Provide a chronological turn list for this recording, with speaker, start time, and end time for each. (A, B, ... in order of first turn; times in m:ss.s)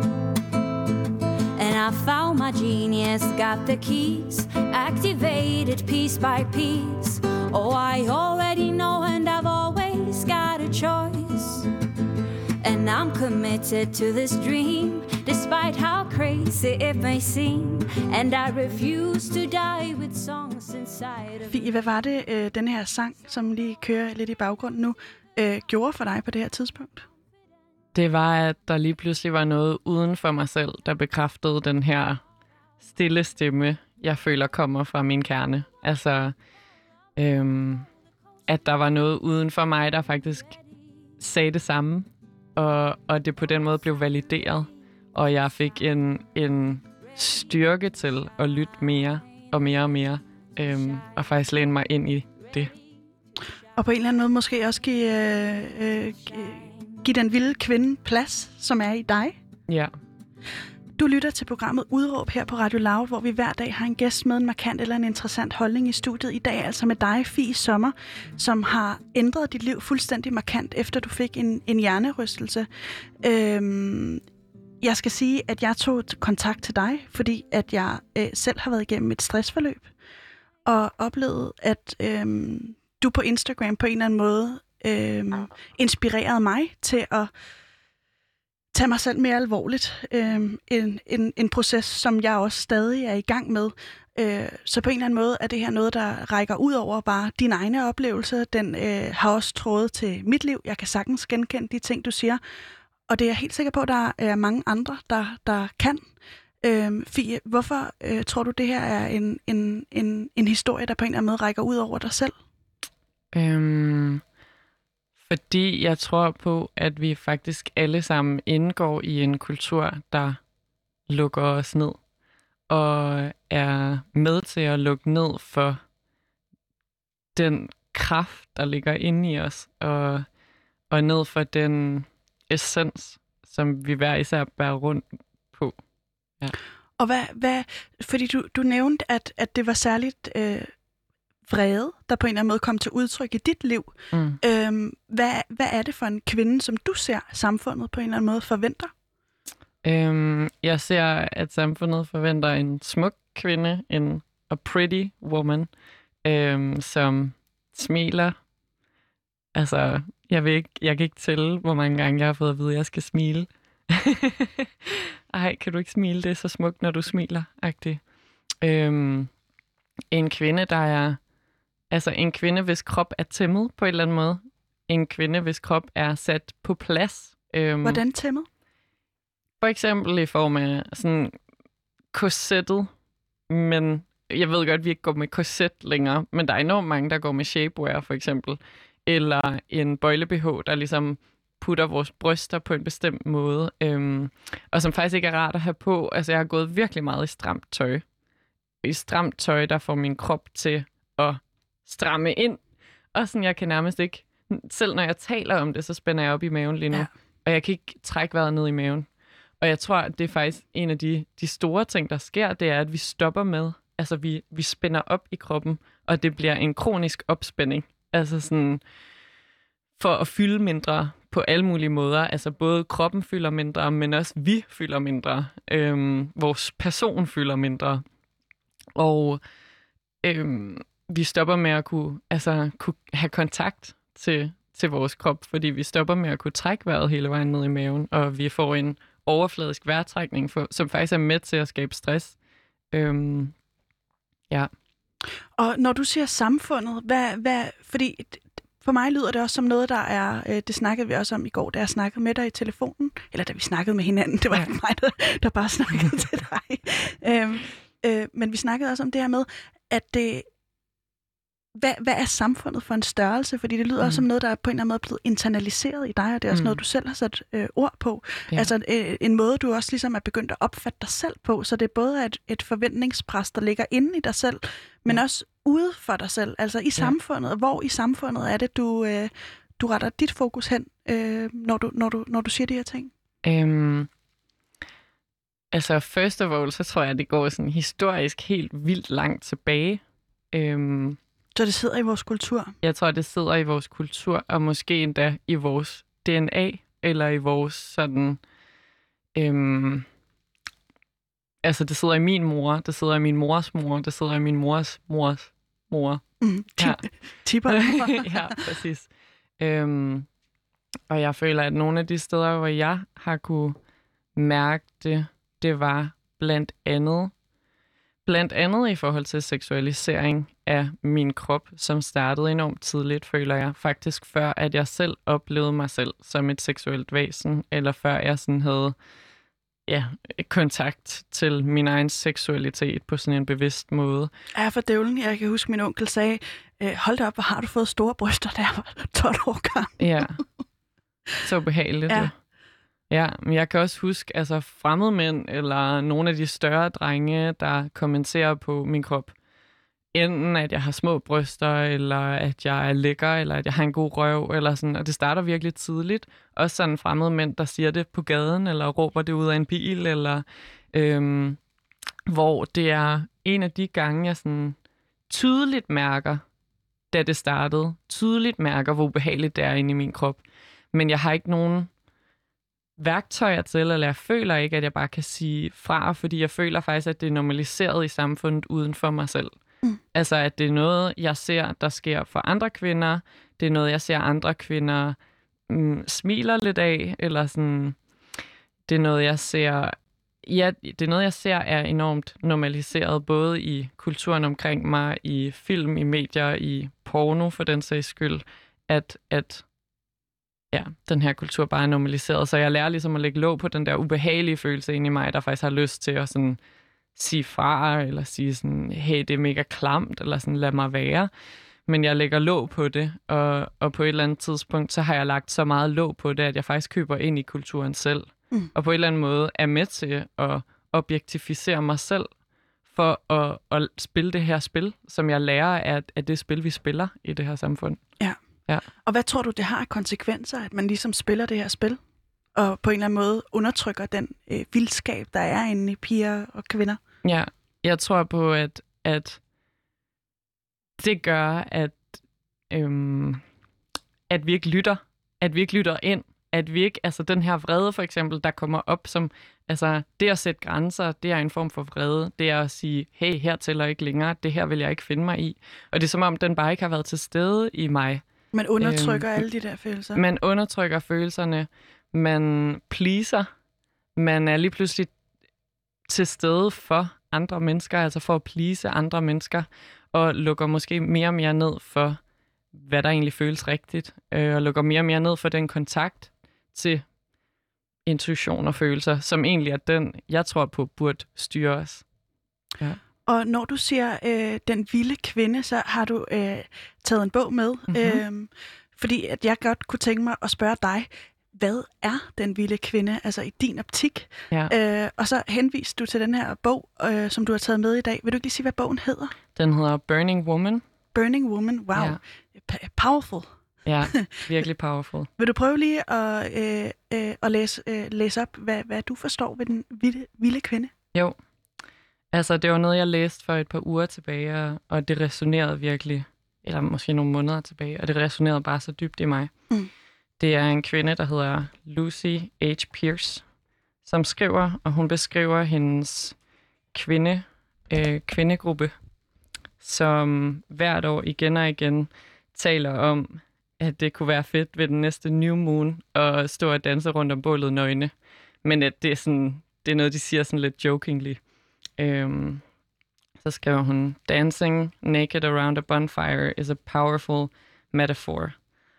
0:01.6-0:11.7 A
0:12.6-0:21.7 A
0:21.5-0:27.0 B
0:27.9-0:32.2 C
0:32.8-0:36.4 C
0:37.2-0:37.9 C
0:38.5-0:40.6 C
0:41.2-0:52.7 C
0:53.8-0:59.4 B
1:01.0-1:12.7 B
1:13.2-1:14.2 B
1:14.8-1:19.9 B
1:20.7-1:27.3 B
1:28.7-1:42.4 B
1:43.1-1:46.1 B
1:46.6-1:52.4 B
1:53.3-1:54.2 C
1:55.3-2:00.4 C
2:01.1-2:02.0 C
2:02.7-2:05.8 C
2:07.4-2:10.3 C
2:10.9-2:15.8 C
2:17.0-2:20.7 B
2:21.5-2:28.9 B
2:24.1-2:24.4 C
2:29.8-2:35.7 C
2:36.2-2:38.4 C
2:39.5-2:48.0 C
2:48.6-2:49.3 C
2:50.1-2:51.2 C
2:51.9-2:58.0 C
2:57.8-2:58.5 B
2:59.6-3:01.3 C
3:02.1-3:02.9 C
3:03.5-3:18.0 C
3:18.8-3:22.6 C
3:23.1-3:29.1 C
3:29.6-3:38.8 C
3:40.0-3:48.0 C
3:49.0-3:49.4 C
3:50.2-4:02.4 C
4:02.9-4:03.6 C
4:05.6-4:20.5 B
4:21.8-4:43.1 B
4:26.5-4:26.8 C
4:43.4-4:44.1 C
4:45.7-4:51.2 C
4:51.6-4:52.8 B
4:52.8-4:58.4 C
4:59.4-5:00.1 C
5:01.6-5:06.2 C
5:06.4-5:08.6 B
5:07.7-5:10.3 C
5:11.1-5:13.8 C
5:14.4-5:17.3 C
5:18.3-5:29.0 C
5:29.9-5:34.3 C
5:34.6-5:40.4 B
5:40.0-5:40.4 C
5:41.4-5:42.3 C
5:43.1-5:49.3 C
5:50.1-6:01.6 C
6:02.3-6:04.8 C
6:05.3-6:06.4 C
6:07.1-6:10.4 C
6:10.9-6:11.9 C
6:13.0-6:19.5 C
6:20.1-6:25.2 C
6:25.7-6:28.0 C
6:28.9-6:39.6 C
6:40.7-6:46.6 C
6:47.2-6:51.3 C
6:51.9-7:02.3 C
7:02.9-7:08.0 C
7:09.0-7:12.0 B
7:12.6-7:17.0 B
7:17.2-7:19.4 C
7:21.0-7:22.1 C
7:22.7-7:23.4 C
7:24.3-7:38.2 C
7:38.5-7:40.2 B
7:38.8-7:39.4 C
7:40.2-7:43.5 C
7:44.2-7:45.1 C
7:46.1-7:52.2 C
7:52.7-7:57.0 C
7:58.1-8:02.0 C
8:03.2-8:19.4 B
8:07.9-8:08.2 C
8:19.6-8:20.8 C
8:21.1-8:23.5 B
8:23.8-8:25.3 C
8:24.1-8:24.4 B
8:25.4-8:30.9 B
8:32.3-8:39.5 C
8:40.4-8:43.4 C
8:44.0-8:46.4 C
8:46.9-8:48.9 C
8:49.8-8:58.1 C
8:58.6-9:01.4 C
9:02.0-9:02.6 C
9:03.4-9:08.6 C